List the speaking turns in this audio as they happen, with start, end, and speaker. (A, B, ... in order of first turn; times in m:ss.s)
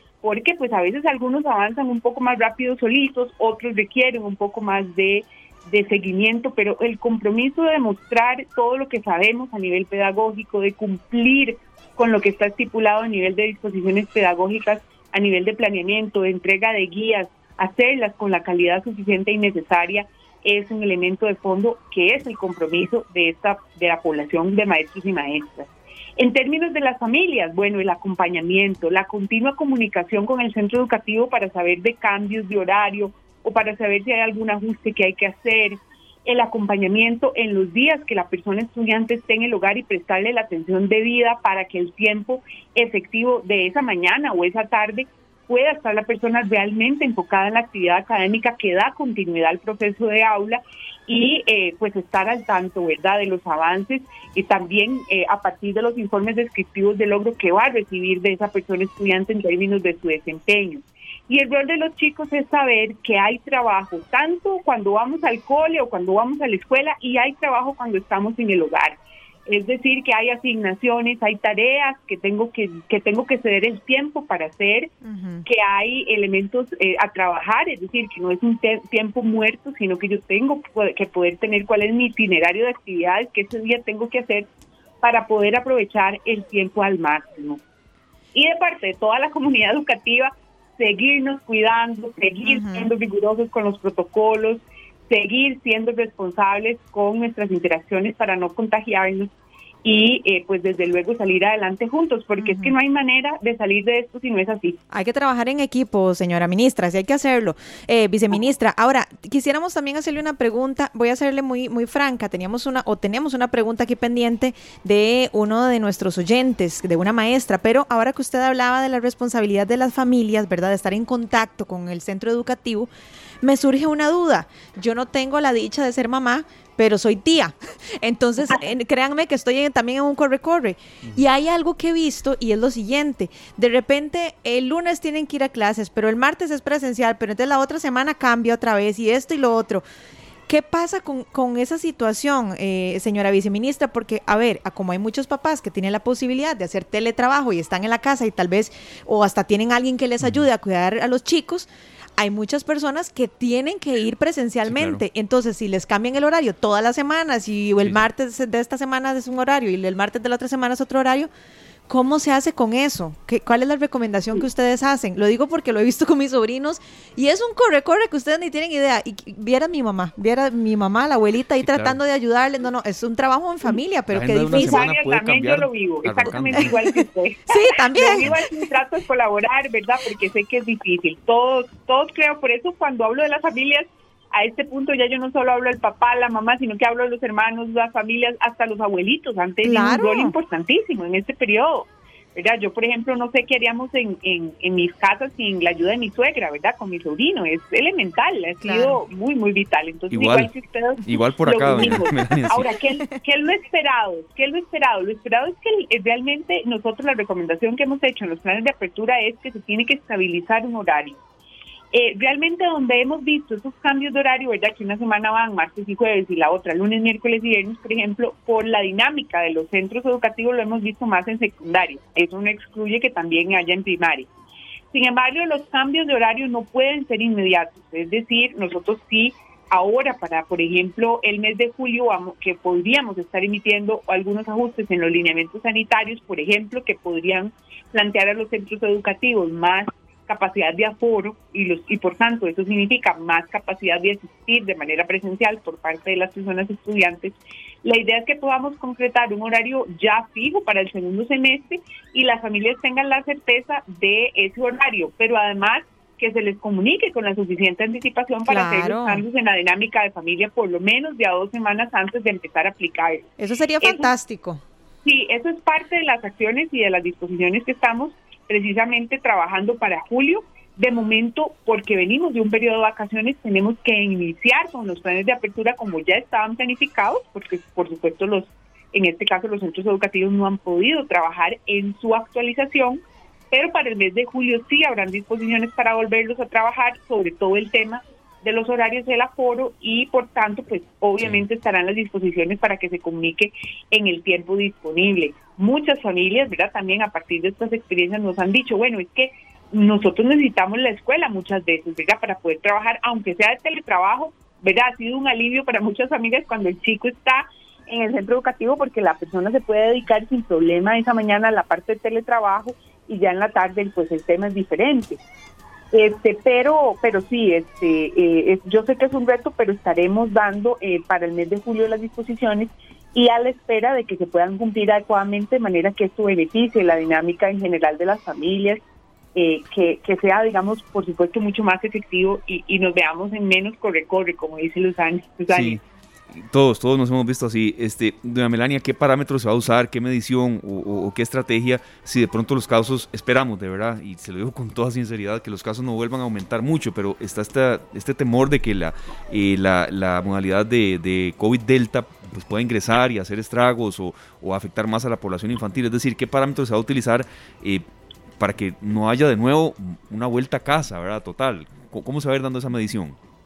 0:00.2-1:14.9 A
1:15.0-1:15.4 B
1:15.4-1:24.5 A
1:25.0-1:27.6 A
1:28.3-1:39.3 A
1:32.5-1:32.9 B
1:39.8-1:44.8 A
1:42.4-1:42.7 B
1:44.9-2:02.9 B
2:03.4-2:19.8 B
2:20.5-2:41.3 B
2:34.7-2:35.0 C
2:41.9-2:54.9 B
2:51.6-2:52.0 C
2:54.1-2:56.8 C
2:54.5-3:31.2 A
2:56.3-2:57.0 B
2:57.5-2:58.6 B
3:09.6-3:10.3 B
3:18.6-3:19.0 B
3:20.1-3:20.5 C
3:21.0-3:22.7 C
3:21.8-3:22.6 B
3:31.9-3:44.3 A
3:44.9-4:23.3 A
4:18.5-4:19.2 B
4:23.4-4:24.6 B
4:23.8-4:24.1 A
4:25.0-4:43.0 A
4:43.5-5:15.2 A
5:15.9-5:28.8 A
5:29.3-5:35.8 A
5:35.5-5:35.8 C
5:36.3-5:57.8 C
5:58.4-6:03.2 C